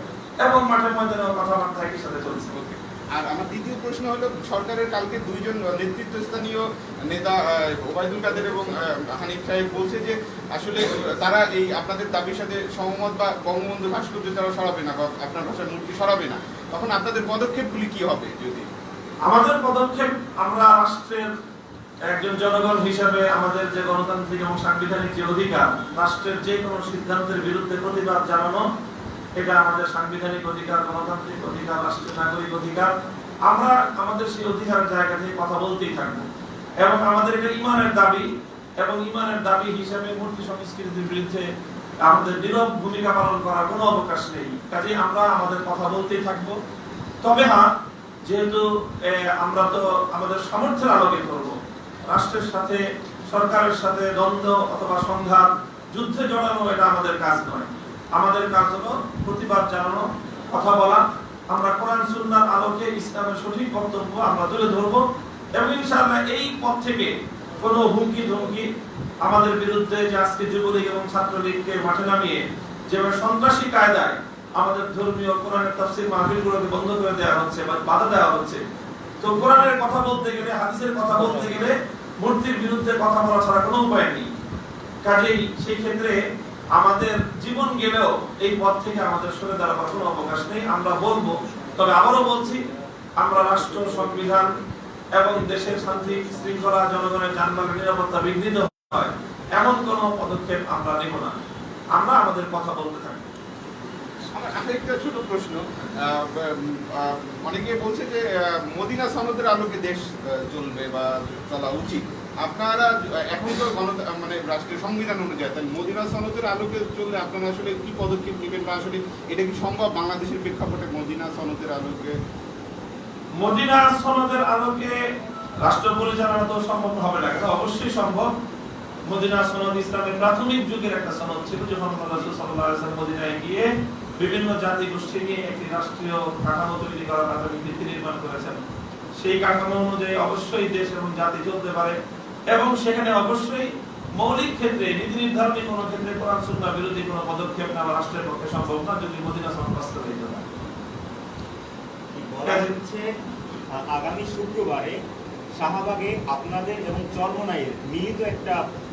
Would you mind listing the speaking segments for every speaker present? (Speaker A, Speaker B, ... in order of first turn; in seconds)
Speaker A: 0.4-2.5, 19.3-21.3, 22.1-28.6, 29.4-32.9, 33.5-36.3, 36.8-41.5, 42.0-46.6, 47.2-47.7, 48.3-65.0, 65.6-68.7, 69.2-78.6, 79.2-84.3, 85.0-86.2, 86.7-92.7, 93.2-94.5, 95.2-101.4, 101.9-103.2, 123.4-125.0, 125.6-128.3, 129.1-138.6, 139.2-142.0, 142.5-150.5, 152.4-152.8
Speaker B: 2.5-18.7, 104.3-122.2
Speaker C: 152.2-153.1, 153.9-155.0, 155.6-158.6